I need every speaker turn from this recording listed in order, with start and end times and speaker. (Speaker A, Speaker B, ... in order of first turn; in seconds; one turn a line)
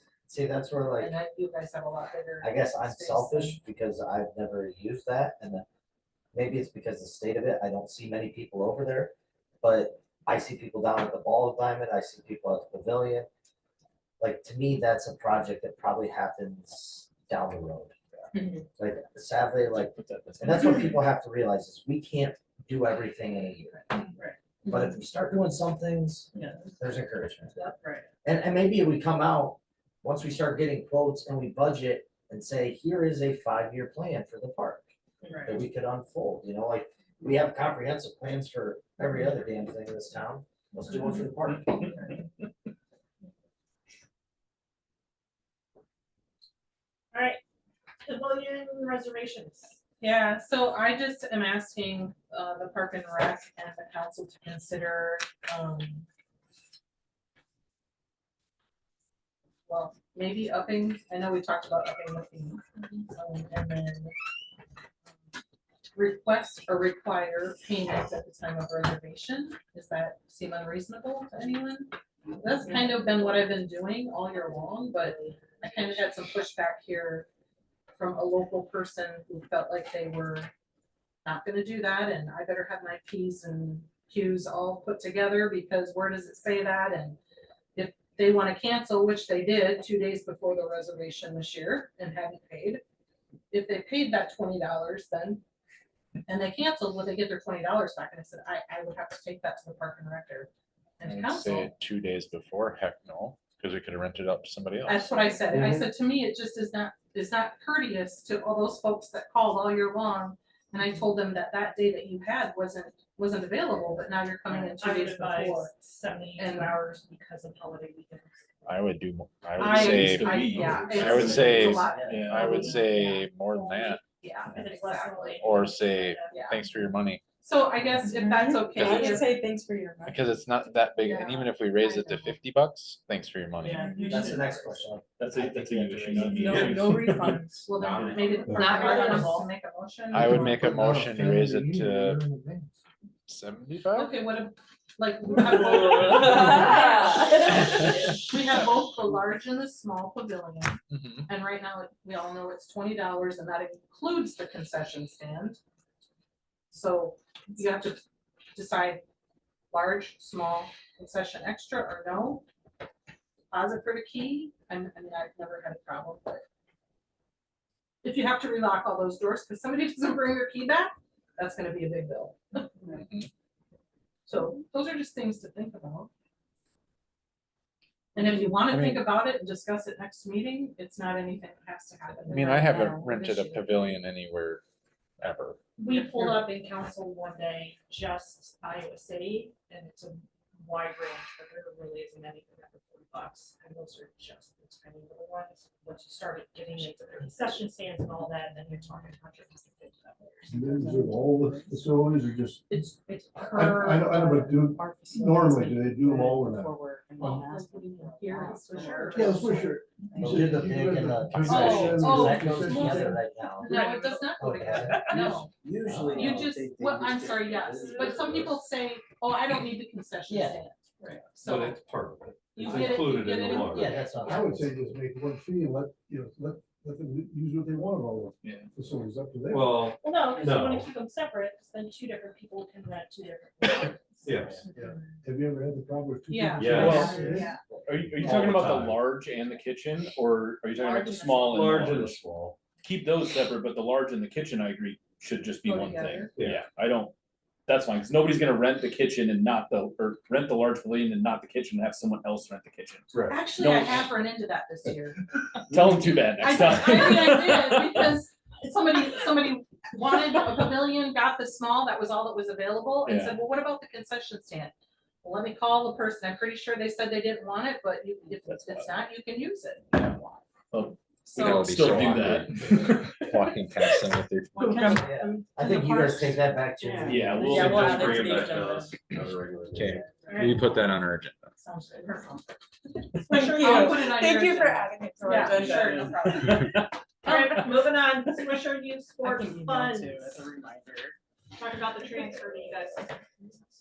Speaker A: 0.3-1.1
Speaker B: 1.0-3.6
Speaker A: 2.4-5.6
Speaker A: 6.3-13.3
Speaker A: 14.2-24.1
Speaker C: 19.9-20.9
Speaker A: 24.6-27.7
Speaker D: 26.3-26.8
Speaker D: 27.6-28.1
Speaker A: 28.2-34.9
Speaker D: 35.2-35.6
Speaker A: 35.4-42.0
Speaker D: 47.1-47.4
Speaker D: 48.0-49.8
Speaker B: 50.0-56.0
Speaker B: 59.7-64.1
Speaker B: 65.9-77.3
Speaker D: 72.7-73.2
Speaker D: 74.9-75.4
Speaker B: 78.0-80.5
Speaker B: 81.2-87.2
Speaker B: 87.7-92.8
Speaker B: 93.5-95.4
Speaker B: 96.3-101.7
Speaker E: 101.0-105.4
Speaker B: 104.8-115.7
Speaker A: 105.5-105.9
Speaker D: 114.5-118.4
Speaker B: 116.3-116.7
Speaker E: 118.7-124.0
Speaker B: 119.6-123.2
Speaker C: 119.6-122.5
Speaker A: 120.5-122.3
Speaker B: 124.1-125.4
Speaker D: 124.5-126.3
Speaker E: 125.4-127.2
Speaker B: 126.3-126.6
Speaker B: 127.4-129.4
Speaker E: 128.7-129.1
Speaker D: 128.7-130.1
Speaker E: 130.0-134.0
Speaker D: 133.6-134.8
Speaker F: 133.8-134.1
Speaker A: 134.0-136.7
Speaker C: 135.2-137.5
Speaker G: 136.4-137.2
Speaker D: 136.7-137.7
Speaker F: 136.8-137.3
Speaker B: 137.6-140.6
Speaker G: 137.7-139.2
Speaker D: 138.5-139.5
Speaker E: 140.1-142.2
Speaker H: 140.1-142.7
Speaker E: 143.3-144.2
Speaker B: 143.9-155.6
Speaker D: 146.4-147.4
Speaker E: 150.9-151.3
Speaker B: 156.7-158.0
Speaker B: 158.5-159.0
Speaker B: 159.7-162.4
Speaker B: 163.5-166.4
Speaker B: 168.0-173.0
Speaker E: 173.0-173.3
Speaker B: 174.2-176.1
Speaker B: 178.1-183.6
Speaker E: 178.7-179.1
Speaker E: 182.3-184.6
Speaker E: 185.2-185.6
Speaker D: 185.8-201.8
Speaker F: 200.5-201.7
Speaker H: 200.5-206.8
Speaker B: 202.7-204.3
Speaker D: 203.5-209.5
Speaker F: 205.7-208.6
Speaker B: 207.2-209.7
Speaker H: 209.1-213.1
Speaker F: 210.2-211.1
Speaker A: 210.2-213.8
Speaker B: 211.4-215.5
Speaker D: 213.7-214.1
Speaker A: 214.4-216.6
Speaker G: 215.8-216.4
Speaker B: 216.1-221.8
Speaker F: 216.5-217.9
Speaker A: 220.3-220.6
Speaker D: 221.0-221.3
Speaker G: 221.4-224.0
Speaker B: 222.5-224.5
Speaker A: 223.5-224.9
Speaker H: 224.3-229.9
Speaker C: 228.4-228.7
Speaker G: 229.5-230.9
Speaker D: 229.9-234.5
Speaker G: 234.2-234.7
Speaker H: 234.7-237.6
Speaker B: 236.3-237.4
Speaker G: 236.6-237.2
Speaker C: 236.7-237.2
Speaker A: 236.8-238.3
Speaker D: 236.9-237.6
Speaker C: 237.8-242.2
Speaker G: 238.2-239.1
Speaker B: 241.1-241.5
Speaker G: 241.5-242.6
Speaker C: 242.8-247.1
Speaker B: 245.6-246.3
Speaker G: 246.3-246.6
Speaker C: 247.7-254.1
Speaker G: 253.1-253.4
Speaker B: 253.3-255.5
Speaker C: 255.7-258.1
Speaker B: 256.4-270.4
Speaker C: 263.0-263.4
Speaker C: 268.5-268.9
Speaker C: 270.7-273.3
Speaker B: 271.2-272.2
Speaker E: 271.4-275.0
Speaker B: 274.5-276.3
Speaker A: 274.9-277.7
Speaker D: 276.8-278.9
Speaker C: 277.1-278.5
Speaker G: 277.4-280.0
Speaker B: 277.5-278.2
Speaker F: 277.9-278.7
Speaker E: 279.7-281.5
Speaker D: 280.2-280.7
Speaker B: 281.6-282.4
Speaker B: 283.2-286.6
Speaker D: 283.2-286.5
Speaker F: 283.6-286.2
Speaker C: 286.2-287.7
Speaker D: 287.2-290.4
Speaker F: 289.2-291.1
Speaker D: 291.5-293.1